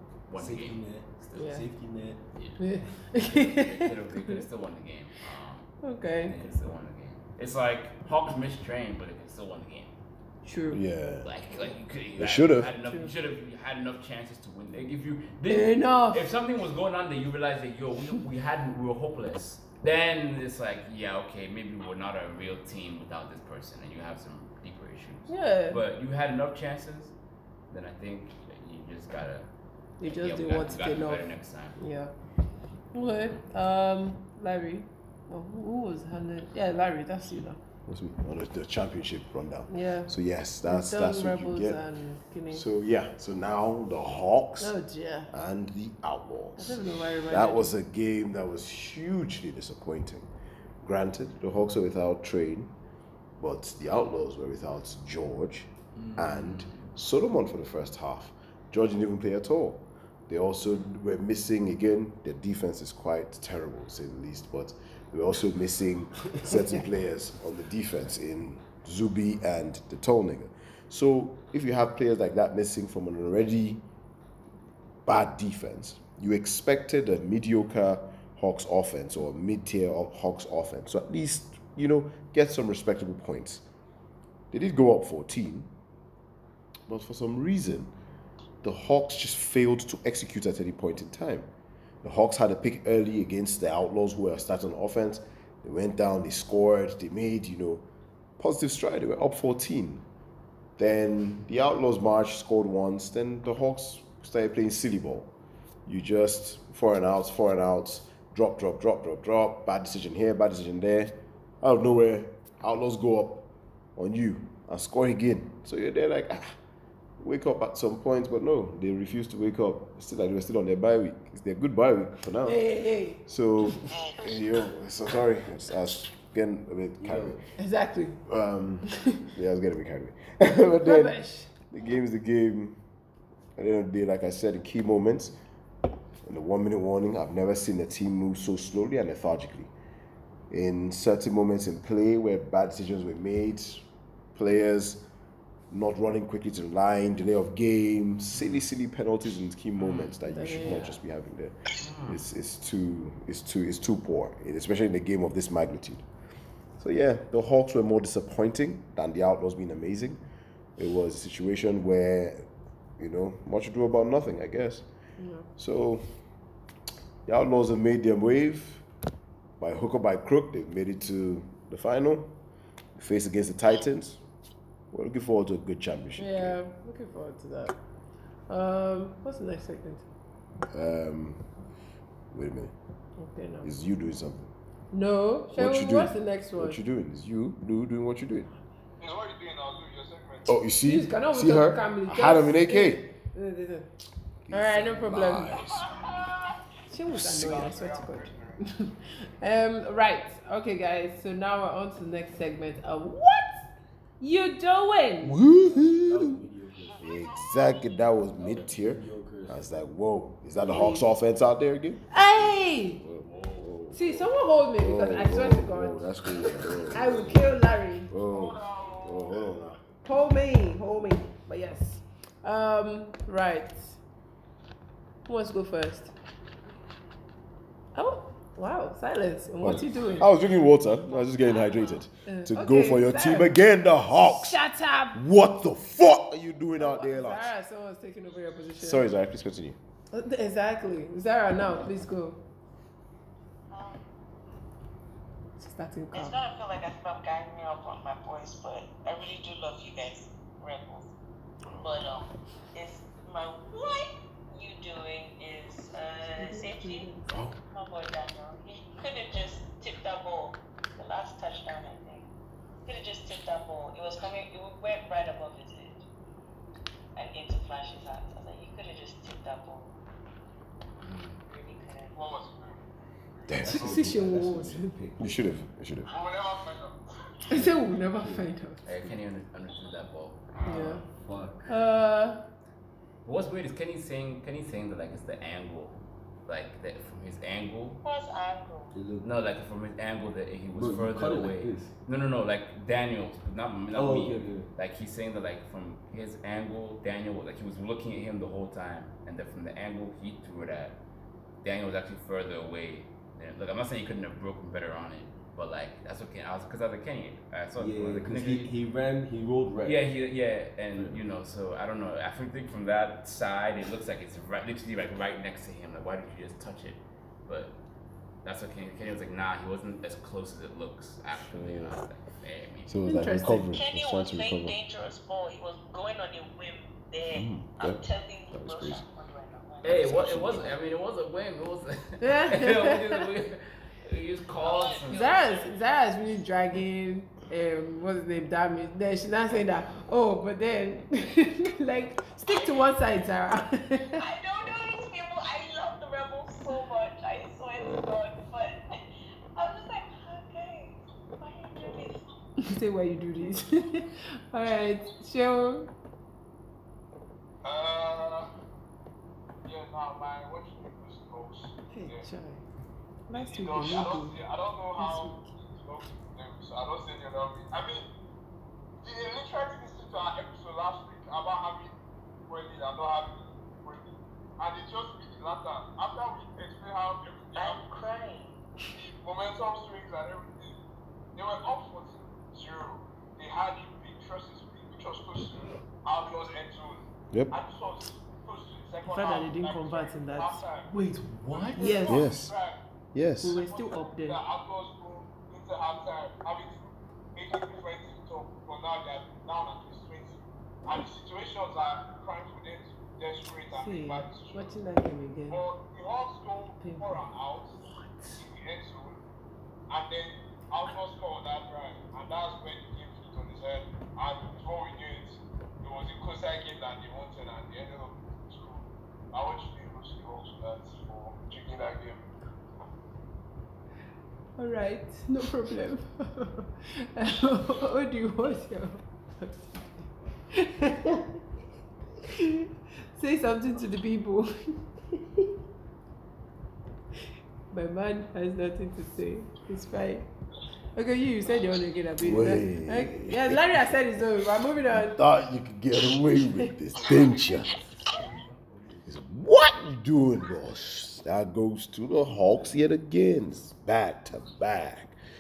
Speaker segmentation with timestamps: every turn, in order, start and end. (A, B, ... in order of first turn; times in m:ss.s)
0:00.3-0:01.6 A
0:00.4-0:02.2 B
0:01.4-0:01.6 C
0:02.3-0:10.0 A
0:02.6-0:04.4 C
0:05.8-0:06.4 C
0:10.4-0:10.8 C
0:10.7-0:11.3 D
0:11.2-0:27.1 A
0:12.2-0:12.7 D
0:15.5-0:16.2 C
0:25.3-0:25.8 C
0:27.7-0:29.5 A
0:30.0-0:31.3 C
0:30.0-0:31.8 A
0:31.8-0:32.1 C
0:32.9-0:37.6 C
0:33.0-0:33.4 A
0:37.9-0:41.8 D
0:39.7-0:40.1 C
0:40.6-0:42.6 C
0:42.5-0:44.7 D
0:44.6-0:45.3 C
0:45.3-0:50.3 D
0:46.6-0:47.7 C
0:50.8-0:52.7 D
0:53.4-1:13.8 D
0:56.0-0:56.9 A
1:15.1-1:23.6 D
1:24.5-1:25.7 D
1:26.9-1:27.9 D
1:28.6-1:31.5 D
1:32.0-1:37.8 D
1:38.4-1:40.0 D
1:40.8-1:45.3 D
1:45.9-1:56.6 D
1:57.2-2:07.4 D
2:02.4-2:03.2 C
2:03.9-2:04.3 E
2:07.0-2:07.4 B
2:07.6-2:08.2 C
2:08.3-2:12.8 D
2:10.8-2:11.5 C
2:13.6-2:15.4 D
2:16.2-2:19.7 D
2:20.5-2:25.0 D
2:25.7-2:36.1 D
2:28.3-2:28.7 A
2:29.8-2:31.0 A
2:30.3-2:31.0 C
2:31.8-2:32.2 A
2:36.8-2:40.2 D
2:40.8-2:44.9 D
2:45.2-2:45.5 C
2:45.6-2:46.1 D
2:47.3-2:48.8 D
2:49.6-2:52.3 D
2:53.0-2:54.2 D
2:54.9-2:56.6 D
2:56.2-2:57.8 C
2:58.5-3:00.0 C
3:00.7-3:01.5 D
3:02.3-3:02.7 D
3:03.2-3:03.7 C
3:03.6-3:04.5 D
3:04.9-3:06.8 C
3:05.5-3:08.5 D
3:09.0-3:10.5 F
3:10.4-3:13.0 D
3:10.8-3:13.9 C
3:14.5-3:16.2 D
3:14.5-3:15.6 C
3:15.6-3:16.6 F
3:16.9-3:23.6 C
3:17.1-3:17.7 D
3:17.3-3:18.6 F
3:24.2-3:25.4 C
3:25.2-3:26.4 D
3:25.7-3:27.0 B
3:27.0-3:27.7 F
3:27.0-3:39.8 D
3:28.4-3:29.7 B
3:30.6-3:31.1 C
3:32.1-3:33.0 C
3:33.1-3:33.8 A
3:33.9-3:36.1 C
3:36.9-3:38.1 C
3:38.2-3:39.6 F
3:40.0-3:44.0 C
3:45.3-3:46.1 C
3:48.0-3:50.3 C
3:49.6-3:54.6 D
3:51.1-3:52.0 E
3:52.3-3:53.5 C
3:54.2-3:55.2 C
3:55.1-3:57.5 D
3:56.8-3:59.1 C
3:58.8-3:59.8 D
4:00.1-4:02.4 C
4:03.7-4:04.0 E
4:05.6-4:06.4 C
4:06.1-4:11.1 E
4:11.7-4:12.0 D
4:11.8-4:22.3 E
4:16.4-4:17.3 C
4:17.3-4:17.6 D
4:22.8-4:26.0 E
4:27.2-4:29.9 E
4:31.0-4:31.4 A
4:31.5-4:32.2 E
4:32.1-4:32.8 F
4:33.5-4:34.1 D
4:33.6-4:34.9 C
4:33.6-4:35.4 B
4:35.2-4:36.1 D
4:36.1-4:37.0 F
4:37.5-4:38.8 C
4:37.5-4:38.5 B
4:38.8-4:41.0 A
4:40.6-4:41.0 C
4:41.0-4:41.7 B
4:41.7-4:42.4 C
4:43.2-4:48.0 A
4:48.0-4:49.0 E
4:48.9-4:49.3 B
4:49.2-5:01.0 A
4:50.7-4:51.9 B
4:53.9-4:54.7 B
5:01.6-5:08.7 A
5:07.8-5:10.1 B
5:09.8-5:17.7 A
5:11.0-5:11.2 B
5:18.4-5:23.0 A
5:21.4-5:22.0 D
5:22.9-5:24.8 D
5:23.0-5:23.7 C
5:23.7-5:30.2 E
5:27.3-5:29.0 D
5:29.8-5:35.7 A
5:29.8-5:30.7 D
5:32.2-5:33.2 C
5:34.6-5:35.4 E
5:35.1-5:44.2 C
5:42.5-5:43.0 E
5:44.1-5:49.0 E
5:49.6-5:52.2 E
5:52.6-5:55.9 C
5:57.6-5:58.5 F
5:59.6-6:02.3 F
6:01.9-6:02.6 C
6:03.3-6:04.4 C
6:03.3-6:08.1 F
6:05.0-6:05.4 C
6:09.0-6:11.9 F
6:12.5-6:17.9 F
6:17.6-6:18.6 E
6:18.9-6:20.8 F
6:21.4-6:30.9 F
6:29.0-6:30.6 C
6:30.9-6:32.0 B
6:31.5-6:32.8 F
6:31.8-6:32.3 C
6:32.1-6:32.5 D
6:33.1-6:33.6 D
6:33.4-6:34.4 C
6:33.5-6:44.7 F
6:43.8-6:45.6 C
6:45.5-6:47.8 F
6:46.8-6:47.2 C
6:48.4-6:49.2 F
6:49.9-7:02.2 F
7:04.6-7:09.7 C
7:10.5-7:11.3 C
7:12.3-7:15.2 C
7:17.7-7:20.3 C
7:21.0-7:25.2 C
7:22.2-7:23.9 D
7:24.9-7:27.8 D
7:27.8-7:29.1 B
7:29.0-7:35.2 D